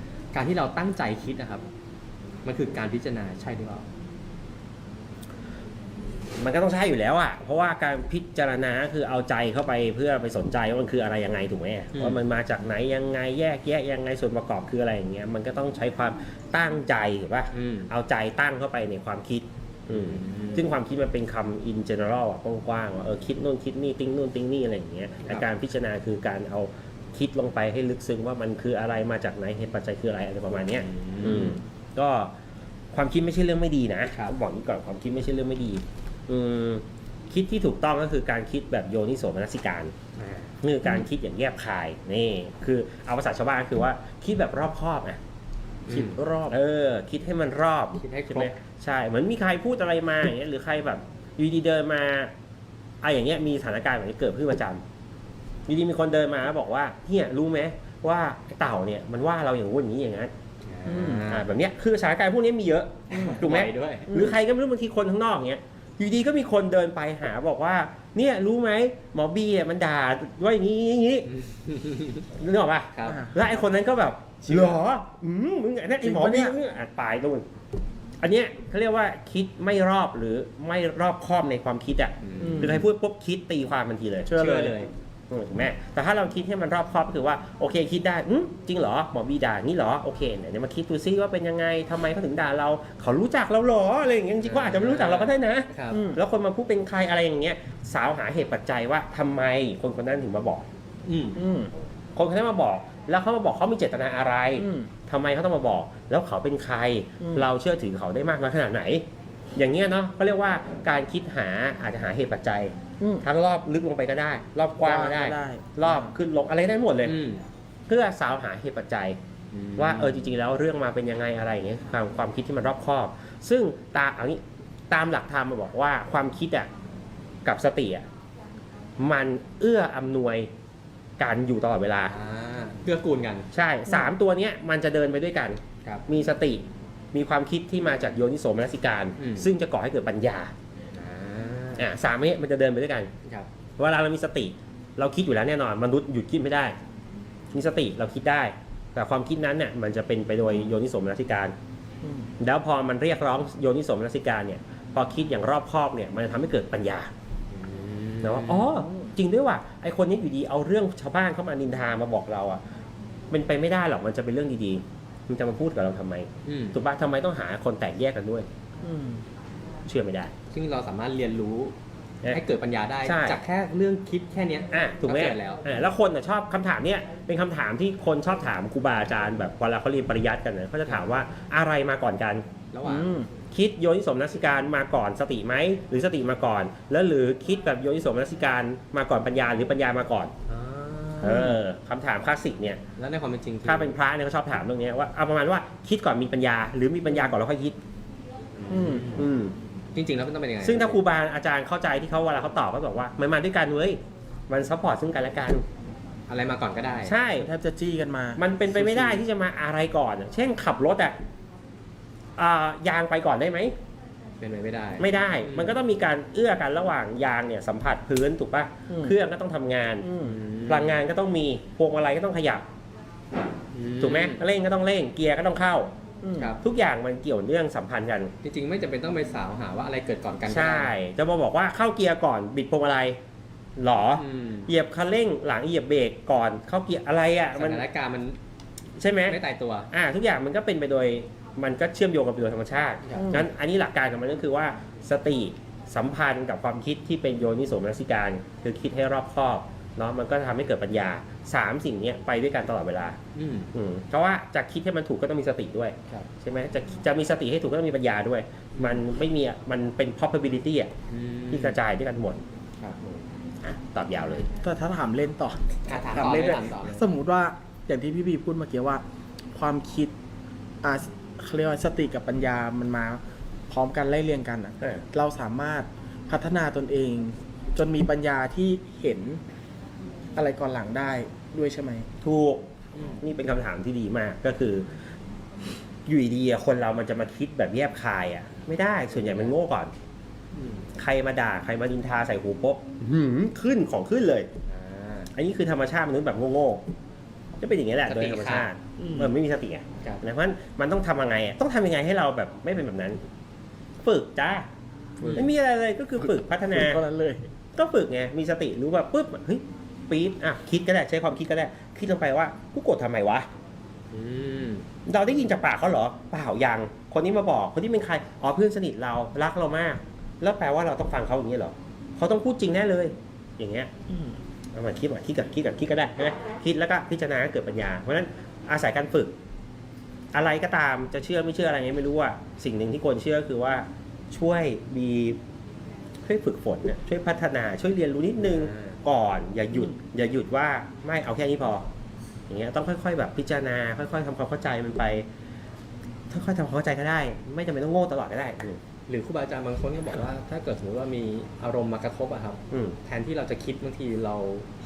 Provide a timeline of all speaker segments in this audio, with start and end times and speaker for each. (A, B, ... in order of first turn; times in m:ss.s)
0:00.3-0:01.6 A
0:02.4-0:03.8 A
0:06.4-0:32.3 B
0:11.9-0:12.2 A
0:17.5-0:17.9 A
0:19.9-0:20.7 A
0:30.8-0:31.6 A
0:32.9-0:40.0 B
0:40.2-0:40.5 A
0:40.6-0:45.2 B
0:45.9-0:46.3 A
0:45.9-0:52.3 B
0:48.0-0:48.6 A
0:53.0-0:54.8 B
0:55.7-1:00.3 B
1:00.7-1:01.5 A
1:00.8-1:01.2 C
1:01.2-1:11.4 B
1:03.1-1:04.2 A
1:03.1-1:03.4 C
1:11.3-1:12.2 A
1:12.3-1:17.4 B
1:13.0-1:13.2 A
1:13.1-1:13.3 C
1:14.5-1:14.8 C
1:16.0-1:16.6 C
1:18.2-1:24.8 B
1:22.2-1:22.8 A
1:22.4-1:22.8 C
1:24.3-1:24.9 C
1:24.5-1:24.8 A
1:25.3-1:40.7 B
1:34.4-1:36.0 A
1:35.9-1:36.2 C
1:41.1-1:41.4 A
1:41.4-1:41.7 C
1:42.2-1:49.0 B
1:44.6-1:44.9 C
1:47.2-1:47.5 C
1:49.6-1:57.2 B
1:53.0-1:53.2 C
1:54.8-1:56.0 C
1:57.0-1:57.4 A
1:57.9-1:59.2 B
1:59.5-2:00.2 A
1:59.8-2:06.7 B
2:07.4-2:08.0 B
2:09.0-2:10.5 B
2:11.2-2:12.2 B
2:12.1-2:13.5 A
2:13.5-2:20.5 B
2:19.2-2:19.5 A
2:20.9-2:21.9 A
2:21.8-2:23.1 B
2:23.8-2:26.8 B
2:27.5-2:31.5 B
2:32.0-2:32.3 C
2:32.4-2:37.1 B
2:37.5-2:38.7 A
2:38.2-2:42.6 B
2:38.7-2:39.1 C
2:43.3-2:48.5 B
2:46.5-2:46.8 A
2:48.8-2:49.2 C
2:49.9-2:50.3 B
2:50.5-2:51.7 A
2:52.3-2:55.6 A
2:53.0-2:53.4 B
2:54.7-3:02.4 B
3:02.7-3:03.2 A
3:02.8-3:03.3 C
3:03.5-3:10.3 B
3:10.5-3:11.5 A
3:11.2-3:12.8 B
3:13.0-3:13.9 A
3:13.6-3:17.8 B
3:18.6-3:19.3 A
3:18.7-3:19.1 C
3:19.1-3:19.5 B
3:20.0-3:21.0 A
3:20.6-3:25.6 B
3:26.3-3:27.2 A
3:27.0-3:27.5 B
3:27.4-3:28.4 C
3:28.4-3:31.2 B
3:28.7-3:29.2 A
3:32.4-3:33.7 B
3:34.4-3:35.8 A
3:35.0-3:40.1 B
3:38.9-3:39.2 C
3:40.0-3:40.4 C
3:40.2-3:41.0 A
3:40.6-3:42.6 B
3:43.7-3:44.4 A
3:44.0-3:45.9 B
3:46.2-3:46.6 C
3:46.4-3:46.6 A
3:46.6-3:48.3 B
3:48.4-3:50.9 A
3:50.5-3:53.2 B
3:53.8-3:57.9 B
3:54.2-3:54.7 A
3:57.5-3:58.4 A
3:59.0-3:59.4 B
3:59.3-3:59.9 A
3:59.9-4:13.2 B
4:03.1-4:03.4 A
4:13.4-4:13.7 A
4:13.7-4:20.9 B
4:21.1-4:21.8 A
4:21.5-4:22.4 B
4:22.8-4:23.2 A
4:23.6-4:24.5 B
4:24.6-4:29.0 C
4:25.9-4:27.0 A
4:29.5-4:30.1 C
4:30.8-4:39.4 C
4:40.4-4:42.1 C
4:42.2-4:44.9 B
4:43.0-4:43.2 A
4:46.1-4:49.9 B
4:50.6-4:50.9 A
4:51.0-4:54.5 B
4:54.7-4:55.3 A
4:55.3-4:56.8 B
4:57.6-5:03.2 B
4:58.1-4:58.7 A
4:59.0-4:59.3 C
5:04.0-5:04.6 B
5:05.2-5:05.5 C
5:05.2-5:05.5 A
5:05.3-5:07.0 B
5:06.2-5:07.5 C
5:07.8-5:13.5 B
5:14.1-5:14.8 A
5:15.1-5:23.9 B
5:24.1-5:24.4 C
5:24.8-5:29.3 B
5:30.3-5:35.4 B
5:36.2-5:41.9 B
5:38.4-5:39.0 A
5:42.5-5:45.3 B
5:46.3-5:48.8 B
5:49.1-5:54.7 A
5:52.7-5:53.0 B